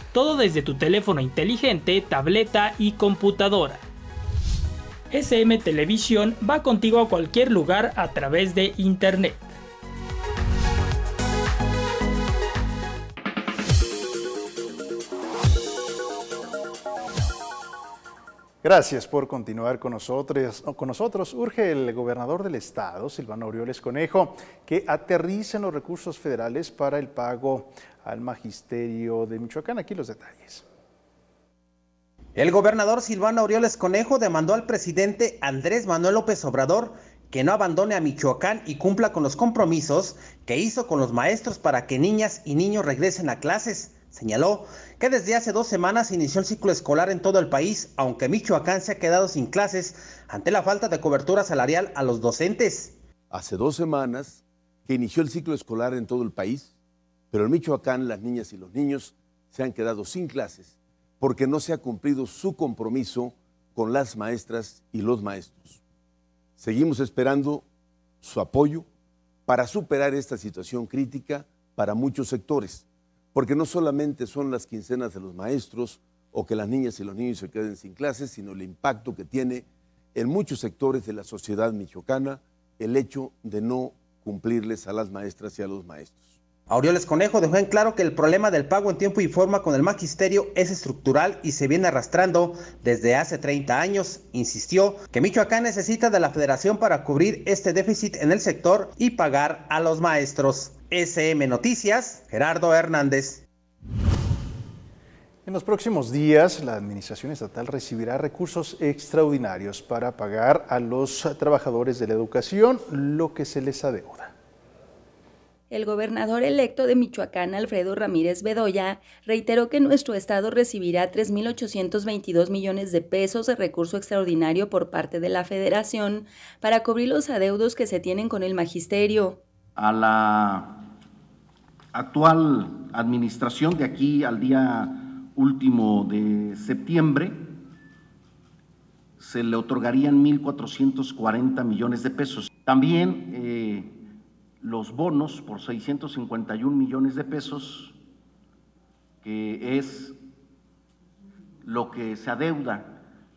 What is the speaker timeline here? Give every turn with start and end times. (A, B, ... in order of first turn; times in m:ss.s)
0:00.1-0:03.8 A
0:05.1-0:09.5 A
0:18.6-0:30.6 B
0:32.4-0:53.0 C
0:53.3-0:56.7 D
0:57.3-1:05.8 D
1:06.6-1:07.6 D
1:08.2-1:08.8 D
1:09.5-1:26.3 D
1:26.7-1:43.4 C
1:45.4-1:54.3 B
1:55.7-2:09.4 E
2:09.8-2:10.8 F
2:11.9-2:17.5 F
2:19.2-2:24.0 F
2:24.6-2:28.0 F
2:29.2-2:30.1 F
2:31.6-2:33.0 F